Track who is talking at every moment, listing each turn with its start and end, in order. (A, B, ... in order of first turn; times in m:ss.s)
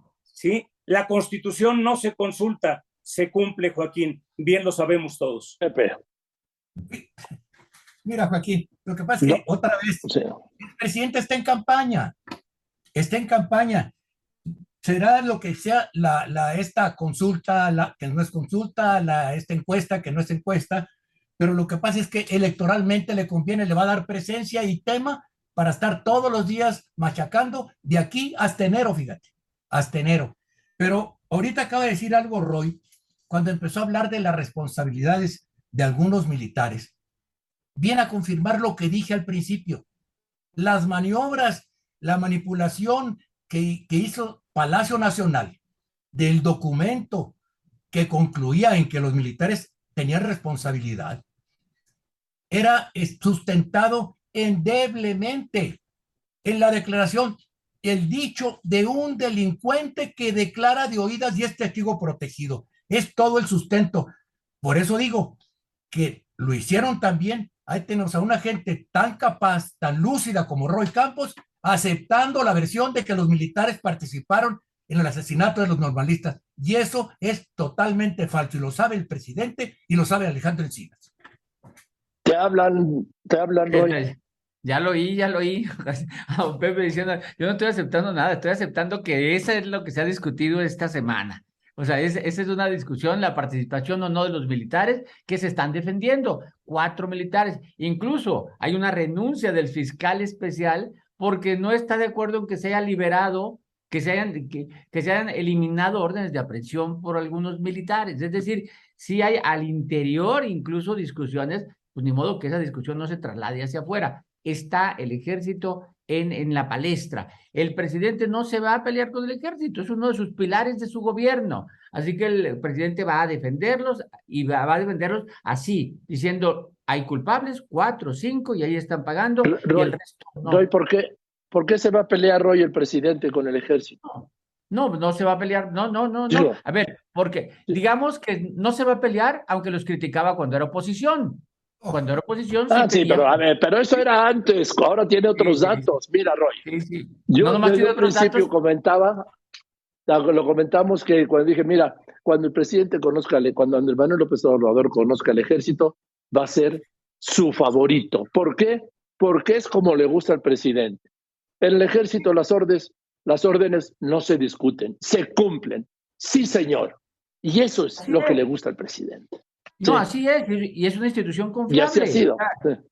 0:00.3-0:05.6 A
0:05.6-0:06.0 B
0:06.9-0:07.1 C
0:08.0-0:10.0 C
0:10.0-0:10.4 B
0:10.6-0:12.1 C
0:12.9-0:13.9 C
0:14.8-0:20.9 C
0:21.4-0:36.9 C
0:37.8-0:39.8 C
0:40.6-0:45.6 C
0:46.1-0:47.3 C
0:47.9-0:51.2 C
0:52.5-0:55.8 C
0:56.4-1:04.1 C
1:04.6-1:05.4 C
1:05.9-1:21.1 C
1:22.2-1:23.9 B
1:23.7-2:10.6 D
2:09.4-2:14.0 B
2:14.0-2:23.4 D
2:16.3-2:16.6 B
2:22.7-2:26.6 B
2:25.4-2:26.0 D
2:26.6-2:28.5 D
2:27.3-2:29.2 B
2:30.1-2:41.0 B
2:41.6-2:50.0 B
2:48.0-2:48.4 D
2:49.8-2:52.5 D
2:51.7-2:52.8 B